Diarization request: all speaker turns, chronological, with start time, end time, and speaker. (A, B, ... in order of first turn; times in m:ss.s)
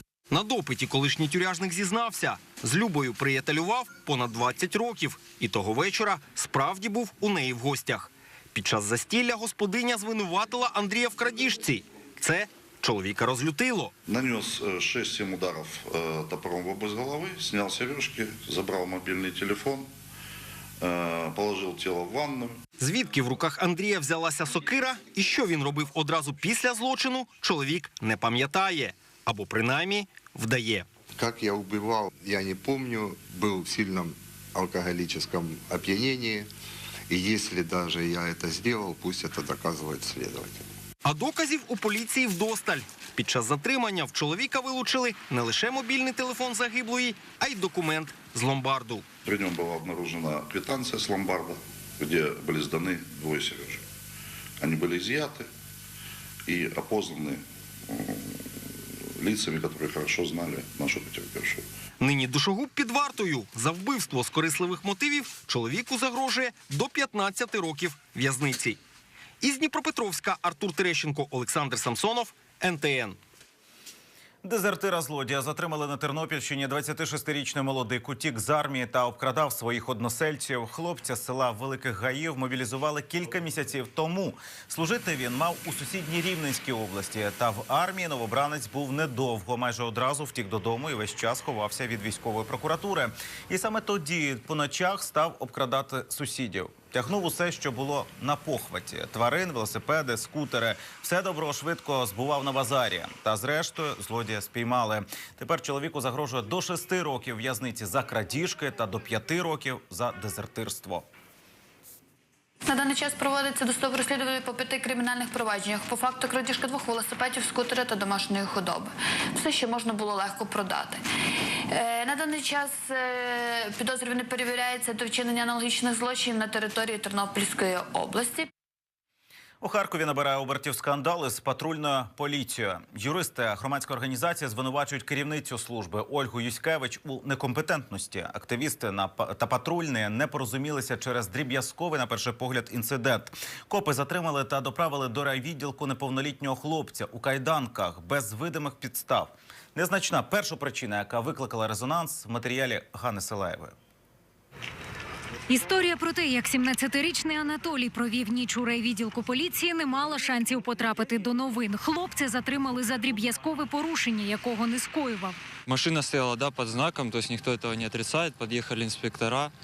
0:00.3-0:13.9 A
0:14.1-0:19.9 B
0:20.8-0:22.6 B
0:22.8-0:30.9 A
0:31.2-0:36.5 C
0:37.1-0:40.7 C
0:41.0-0:49.1 A
0:49.2-0:53.8 B
0:54.6-0:55.5 B
0:56.5-0:58.4 B
0:59.2-1:01.6 B
1:02.0-1:08.8 A
1:09.4-1:13.2 A
1:14.4-1:51.1 D
1:52.7-2:01.0 E
2:01.7-2:08.5 E
2:09.6-2:33.8 D
2:35.5-2:45.4 F
2:45.7-2:49.5 G